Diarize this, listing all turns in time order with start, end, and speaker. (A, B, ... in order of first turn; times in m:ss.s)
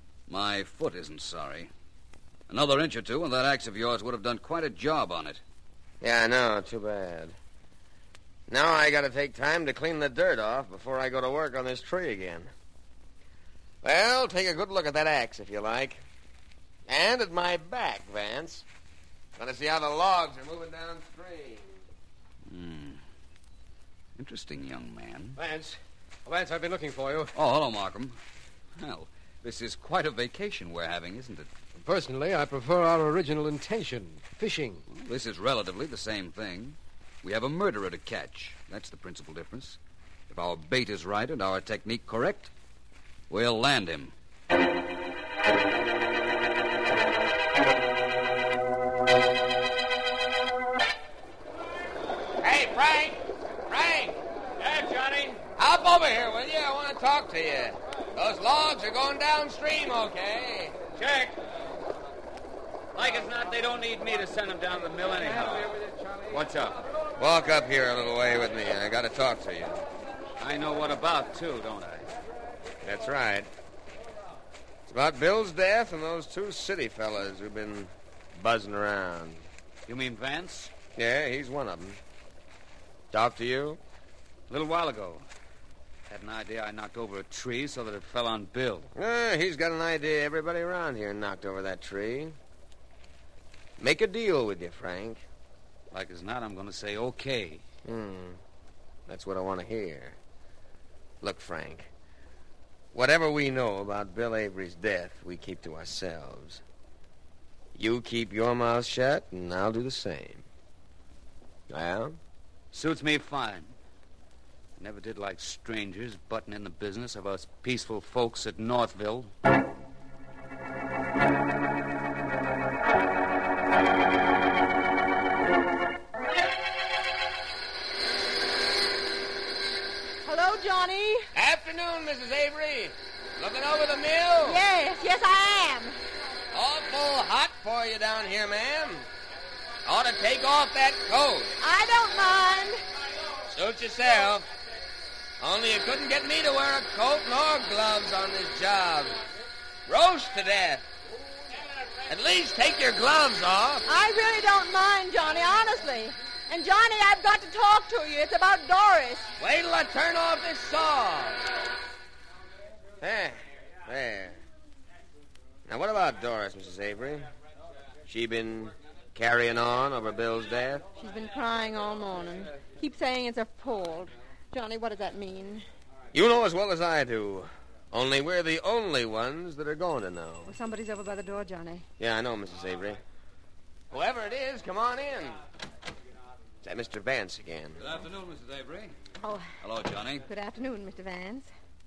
0:00.3-0:01.7 A
0:02.5-0:05.4 A
0:06.0-0:07.3 B
0:08.5-0:12.5 B
0:13.8-0:16.0 B
0:16.9-0:18.6 B
0:19.4-0:21.8 B
0:22.4-0:23.0 A
0:24.2-0:25.4 A
0:25.4-0:27.3 C
0:27.3-0:28.2 A
0:28.8-0:31.5 A
0:31.7-0:34.8 C
0:34.9-0:39.8 A
0:40.3-0:42.5 A
0:43.3-0:44.1 A
0:52.4-0:54.2 B
0:54.6-0:55.4 D
0:55.6-1:00.8 B
1:01.0-1:01.4 D
1:02.9-1:06.8 D
1:07.2-1:09.8 B
1:10.4-1:12.1 D
1:12.8-1:13.5 B
1:14.9-1:19.5 B
1:19.8-1:20.7 D
1:21.0-1:22.0 B
1:23.1-1:23.8 B
1:24.5-1:25.2 D
1:26.1-1:28.9 D
1:29.0-1:32.4 B
1:33.8-1:35.2 B
1:35.9-1:37.6 D
1:37.8-1:38.4 B
1:39.1-1:40.2 B
1:41.2-1:41.9 B
1:42.9-1:46.6 B
1:47.8-1:50.4 B
1:51.7-1:52.2 B
1:52.7-1:53.7 D
1:54.8-1:59.3 D
2:10.2-2:11.3 E
2:11.3-2:14.6 B
2:14.4-2:16.0 E
2:16.5-2:19.1 B
2:19.8-2:21.5 B
2:21.6-2:22.8 E
2:23.5-2:24.5 B
2:25.4-2:29.2 B
2:29.9-2:30.8 B
2:32.1-2:33.8 B
2:33.8-2:39.3 E
2:39.4-2:41.4 B
2:43.0-2:44.4 B
2:45.6-2:47.3 B
2:48.0-2:50.8 B
2:51.0-2:55.6 E
2:56.1-3:00.5 B
3:00.4-3:01.8 E
3:02.0-3:03.0 B
3:03.9-3:05.4 B
3:06.6-3:07.8 B
3:07.8-3:08.9 A
3:09.2-3:09.5 E
3:09.6-3:10.2 A
3:10.2-3:11.5 E